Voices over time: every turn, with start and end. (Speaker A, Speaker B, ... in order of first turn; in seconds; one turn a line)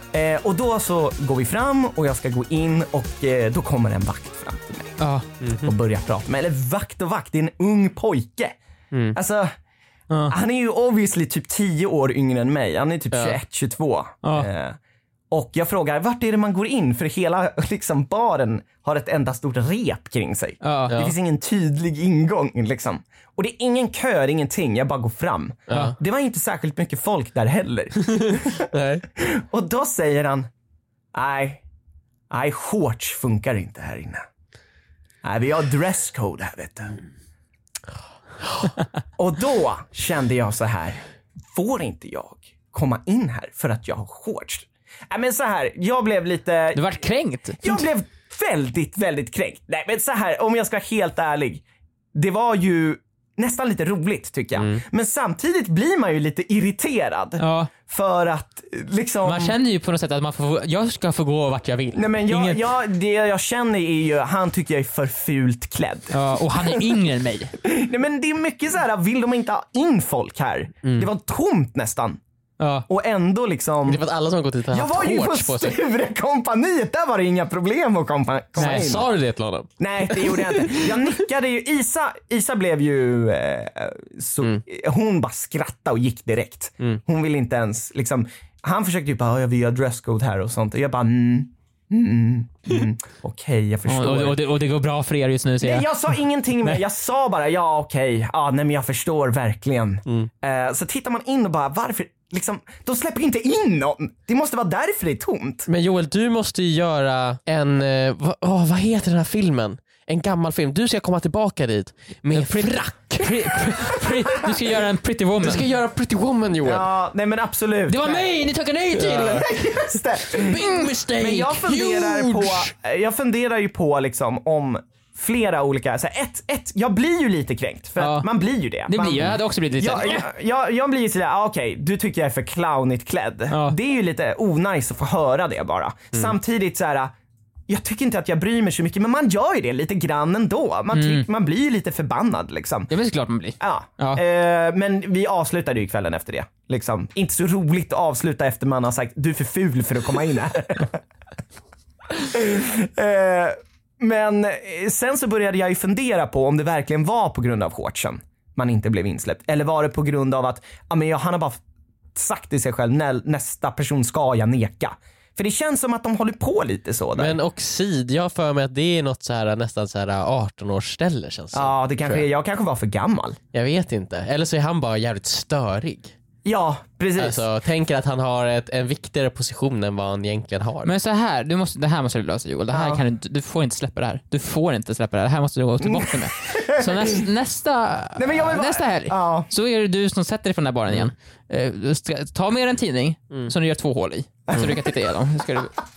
Speaker A: 0.1-5.0
Speaker B: 5.0-5.2
Speaker C: 5.4-5.7
Speaker A: 5.6-8.6
Speaker C: 8.9-9.2
Speaker A: 9.1-9.5
Speaker B: 10.1-10.3
Speaker A: 10.3-14.8
Speaker C: 13.1-13.4
Speaker B: 14.2-14.5
Speaker A: 15.3-30.5
Speaker B: 20.6-20.9
Speaker C: 20.9-21.1
Speaker C: 25.7-25.9
Speaker C: 28.0-29.0
Speaker A: 31.1-31.6
Speaker A: 32.3-34.2
Speaker A: 35.2-37.0
Speaker A: 39.2-46.8
Speaker B: 46.7-47.8
Speaker A: 47.6-51.6
Speaker A: 52.1-59.5
Speaker C: 54.5-54.8
Speaker B: 57.4-57.7
Speaker B: 59.2-62.6
Speaker A: 61.9-66.9
Speaker B: 66.1-67.5
Speaker A: 67.6-72.2
Speaker C: 70.8-71.1
Speaker B: 72.6-72.8
Speaker A: 72.9-74.0
Speaker C: 73.8-75.8
Speaker A: 74.7-79.1
Speaker B: 78.6-78.9
Speaker C: 78.6-81.0
Speaker A: 79.8-94.4
Speaker B: 93.9-95.9
Speaker A: 95.6-105.7
Speaker C: 105.7-113.7
Speaker B: 112.3-115.6
Speaker A: 114.0-114.5
Speaker C: 115.4-116.9
Speaker A: 116.6-118.3
Speaker B: 117.9-119.5
Speaker A: 118.9-137.1
Speaker C: 119.1-119.4
Speaker B: 120.3-121.5
Speaker C: 120.4-122.7
Speaker B: 128.0-128.3
Speaker B: 128.9-130.3
Speaker B: 133.5-133.8
Speaker A: 137.7-142.9
Speaker B: 140.9-141.2
Speaker B: 142.9-144.2
Speaker A: 143.6-151.0
Speaker A: 152.2-161.6
Speaker A: 162.1-167.4
Speaker C: 167.2-172.2
Speaker A: 171.5-173.4
Speaker C: 173.5-176.1
Speaker A: 176.4-177.4
Speaker C: 177.2-180.9
Speaker B: 180.8-195.8
Speaker A: 182.7-183.0
Speaker A: 185.8-187.2
Speaker A: 188.2-189.5
Speaker A: 194.5-194.8